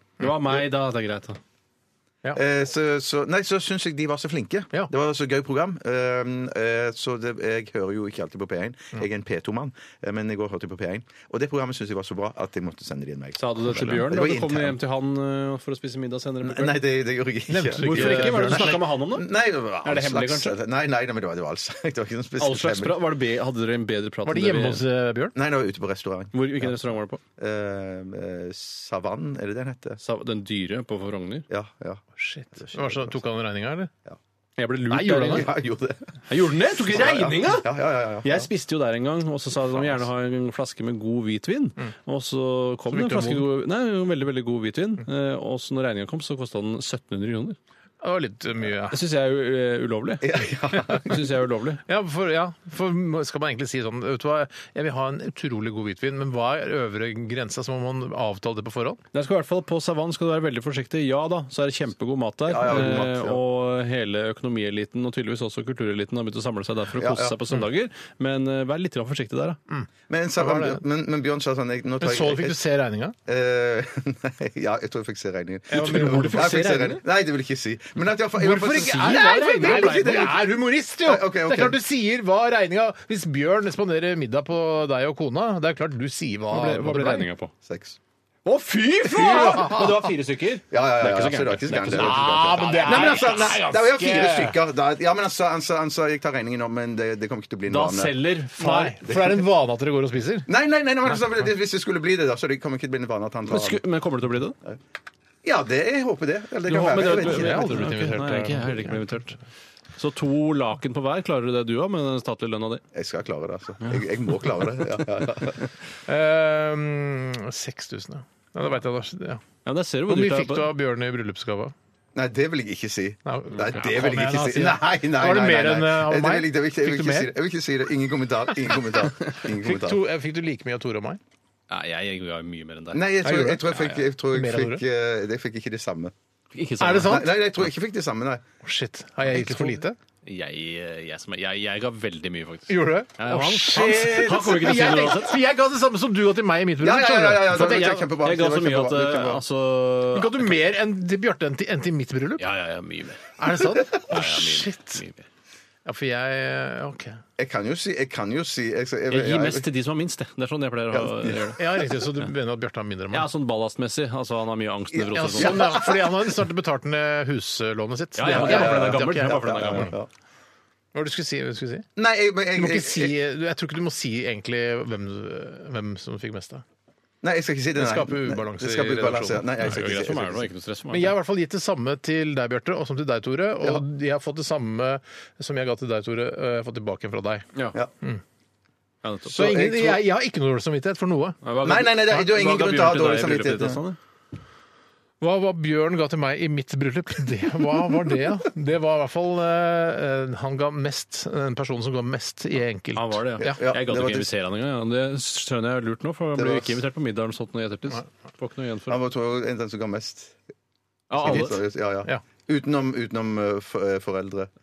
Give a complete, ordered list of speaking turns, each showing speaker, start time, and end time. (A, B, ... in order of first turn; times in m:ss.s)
0:00.2-0:01.4 A
0:02.3-0:14.8 B
0:13.4-0:16.8 A
0:16.4-0:23.1 B
0:17.5-0:18.8 C
0:17.8-0:19.3 A
0:19.8-0:20.6 A
0:22.4-0:24.8 A
0:24.2-0:25.4 C
0:25.4-0:26.8 B
0:26.3-0:27.2 A
0:27.4-0:30.0 B
0:30.0-0:31.5 A
0:31.5-0:33.2 B
0:32.2-0:33.9 C
0:34.6-0:35.5 A
0:34.9-0:35.5 C
0:35.2-0:36.2 B
0:36.3-0:37.7 A
0:36.9-0:38.5 B
0:38.2-0:47.6 A
0:42.9-0:43.5 C
0:48.0-0:49.0 C
0:48.9-0:51.8 A
0:50.2-0:51.2 B
0:51.9-0:59.0 C
0:59.1-1:09.6 A
1:02.5-1:03.4 B
1:07.0-1:07.4 B
1:09.7-1:10.8 C
1:10.1-1:12.6 B
1:12.0-1:13.2 C
1:13.3-1:20.5 B
1:15.7-1:17.0 C
1:15.8-1:16.9 A
1:18.4-1:27.3 C
1:19.0-1:20.2 A
1:21.0-1:21.8 B
1:26.5-1:27.5 A
1:27.6-1:28.0 B
1:28.4-1:33.4 A
1:29.0-1:30.0 C
1:30.7-1:38.2 B
1:31.9-1:34.6 C
1:37.7-1:39.0 A
1:38.6-1:40.5 C
1:39.0-1:39.4 B
1:40.5-1:43.8 B
1:43.5-1:44.6 A
1:45.4-1:47.8 B
1:46.7-1:49.4 A
1:47.0-1:49.1 C
1:50.0-1:52.8 A
1:52.9-1:55.7 B
1:56.1-1:59.4 C
1:59.6-2:00.7 A
2:00.1-2:01.8 C
2:02.2-2:10.0 B
2:03.3-2:07.3 C
2:08.7-2:11.2 C
2:11.7-2:13.1 A
2:12.9-2:16.1 B
2:13.2-2:14.8 C
2:16.5-2:17.2 A
2:16.8-2:17.4 C
2:17.0-2:18.4 B
2:18.6-2:20.0 C
2:20.2-2:25.4 A
2:22.7-2:28.0 C
2:26.8-2:29.4 B
2:27.5-2:30.5 A
2:30.1-2:32.5 C
2:32.4-2:35.3 A
2:33.4-2:35.0 C
2:35.8-2:37.2 C
2:37.4-2:39.7 B
2:39.1-2:41.6 A
2:40.9-2:41.6 B
2:41.6-2:43.3 C
2:43.1-2:45.9 A
2:45.1-2:49.9 C
2:45.3-2:46.1 B
2:48.2-2:49.9 A
2:48.2-2:50.1 B
2:50.9-2:51.9 C
2:52.0-2:53.2 B
2:52.6-2:56.6 C
2:57.2-3:00.5 B
2:57.8-2:59.5 C
2:59.6-3:01.2 A
3:00.9-3:07.5 C
3:09.0-3:09.5 A
3:09.3-3:11.4 C
3:09.3-3:10.0 B
3:11.4-3:14.0 A
3:11.6-3:13.8 B
3:15.2-3:23.6 C
3:23.0-3:29.0 A
3:23.4-3:24.3 B
3:26.4-3:26.8 B
3:28.9-3:30.4 B
3:31.1-3:31.6 A
3:31.2-3:34.5 B
3:31.2-3:31.5 C